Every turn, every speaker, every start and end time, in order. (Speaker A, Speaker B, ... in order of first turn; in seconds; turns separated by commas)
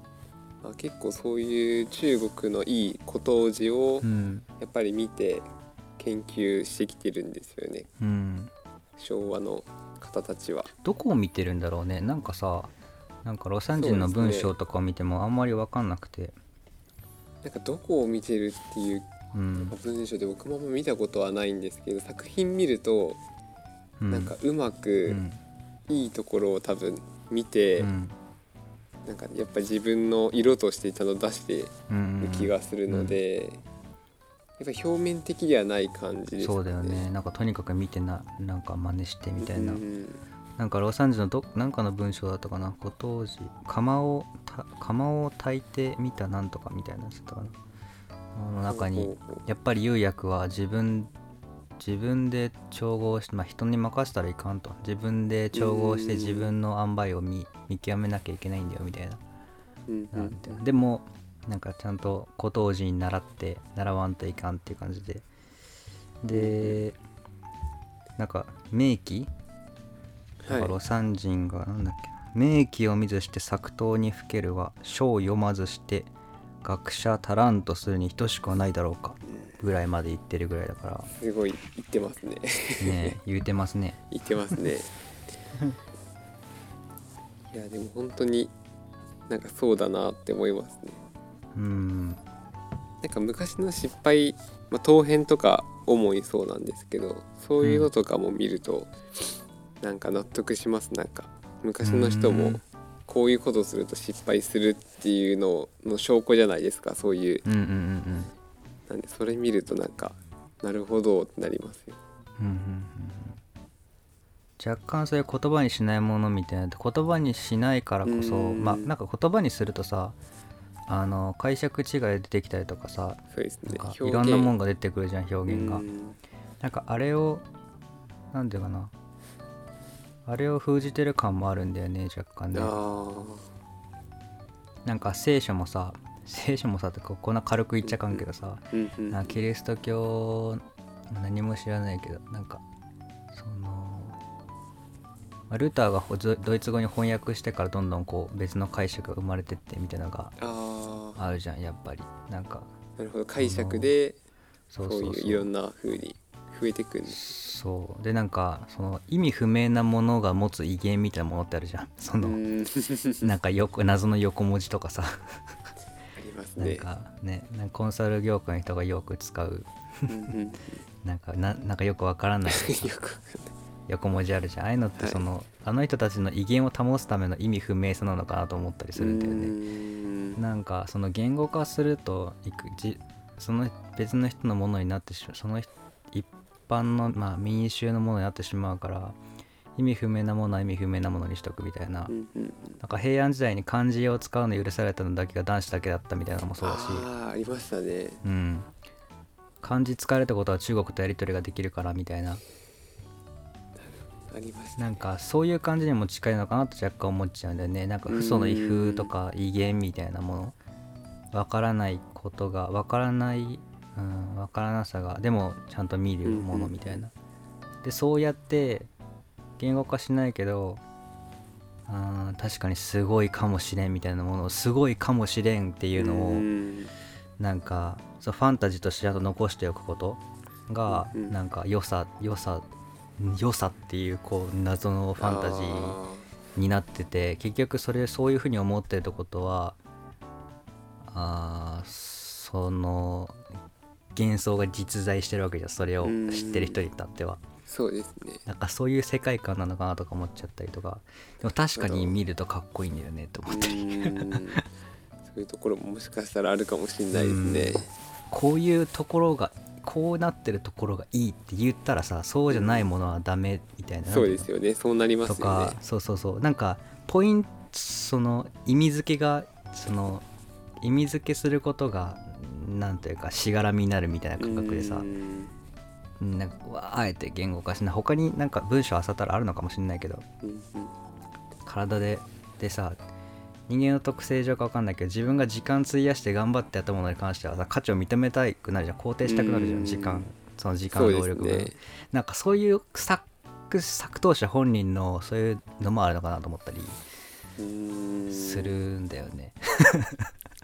Speaker A: 0.6-4.1, Speaker B: 4.0-4.5, Speaker A: 4.6-5.5, Speaker A: 6.0-7.9, Speaker B: 8.0-8.5, Speaker A: 9.0-10.7, Speaker B: 10.8-12.7, Speaker B: 13.2-16.4, Speaker A: 13.7-14.5, Speaker A: 17.4-19.1, Speaker B: 19.3-19.8, Speaker A: 19.6-23.2, Speaker B: 24.0-24.4, Speaker A: 24.1-25.2, Speaker B: 25.1-25.4, Speaker A: 25.9-27.9, Speaker B: 27.8-28.2, Speaker A: 29.1-33.6, Speaker B: 31.9-33.2, Speaker A: 34.6-37.1, Speaker B: 36.4-39.8, Speaker A: 39.4-40.2, Speaker B: 40.6-47.6, Speaker B: 48.4-51.1, Speaker A: 48.7-49.5, Speaker B: 51.8-59.2, Speaker A: 55.5-56.5, Speaker A: 59.9-60.6, Speaker B: 60.1-65.2, Speaker B: 66.2-67.0, Speaker A: 66.3-66.8, Speaker B: 68.2-69.3, Speaker A: 70.4-70.8, Speaker B: 70.5-76.1, Speaker B: 76.6-81.1, Speaker A: 81.1-83.2, Speaker B: 82.8-84.5, Speaker A: 84.1-84.9, Speaker A: 87.5-88.5, Speaker A: 89.3-91.0, Speaker B: 91.5-92.2, Speaker A: 93.0-98.9, Speaker B: 97.6-97.9, Speaker A: 99.8-107.5, Speaker B: 101.8-102.6, Speaker B: 107.5-108.3, Speaker A: 108.9-112.0, Speaker B: 112.4-113.4, Speaker B: 114.6-120.2, Speaker A: 118.0-118.9, Speaker B: 120.9-125.9, Speaker A: 123.3-124.5, Speaker A: 125.5-126.2, Speaker B: 126.6-127.5, Speaker B: 128.3-128.9, Speaker B: 130.3-132.8, Speaker A: 132.5-133.5, Speaker B: 134.8-142.6, Speaker A: 137.8-139.4, Speaker B: 143.3-144.2, Speaker B: 145.5-150.3, Speaker A: 150.4-151.2, Speaker B: 151.2-152.7, Speaker A: 153.0-154.2, Speaker B: 153.4-153.9, Speaker B: 154.7-155.5, Speaker A: 154.8-157.3, Speaker B: 157.1-162.4, Speaker A: 162.2-163.3, Speaker B: 163.2-165.5, Speaker A: 166.2-166.9, Speaker B: 166.6-170.1, Speaker A: 170.1-170.8, Speaker B: 171.0-172.9, Speaker A: 172.4-173.5, Speaker B: 173.9-179.6, Speaker A: 175.0-175.2, Speaker A: 178.9-180.4, Speaker B: 180.4-189.2, Speaker B: 189.8-192.1, Speaker A: 192.1-192.8, Speaker B: 192.8-197.1, Speaker A: 196.6-198.2, Speaker B: 198.2-198.7, Speaker B: 199.6-202.4, Speaker A: 203.8-205.0, Speaker B: 204.8-210.6, Speaker A: 208.1-209.1, Speaker B: 211.3-217.1, Speaker A: 216.2-217.0, Speaker B: 217.8-218.9, Speaker B: 219.6-220.8, Speaker B: 221.9-226.5, Speaker A: 225.9-226.9, Speaker B: 227.4-232.7, Speaker A: 230.9-231.3, Speaker B: 233.2-236.0, Speaker A: 235.2-236.3, Speaker B: 236.6-239.8, Speaker B: 241.1-243.4, Speaker B: 244.2-247.4, Speaker A: 246.0-246.8, Speaker A: 247.7-248.4, Speaker B: 248.4-254.6, Speaker A: 251.8-252.2, Speaker A: 253.5-254.6, Speaker A: 255.3-257.9, Speaker B: 257.1-264.5, Speaker A: 262.5-262.9, Speaker A: 264.1-265.8, Speaker B: 265.3-270.2, Speaker B: 270.8-275.1, Speaker A: 274.4-275.6, Speaker B: 276.2-280.2, Speaker A: 280.4-280.9, Speaker B: 281.6-283.0, Speaker B: 283.7-297.0, Speaker A: 289.2-290.3, Speaker A: 290.9-291.8, Speaker A: 297.6-298.8, Speaker B: 298.3-300.3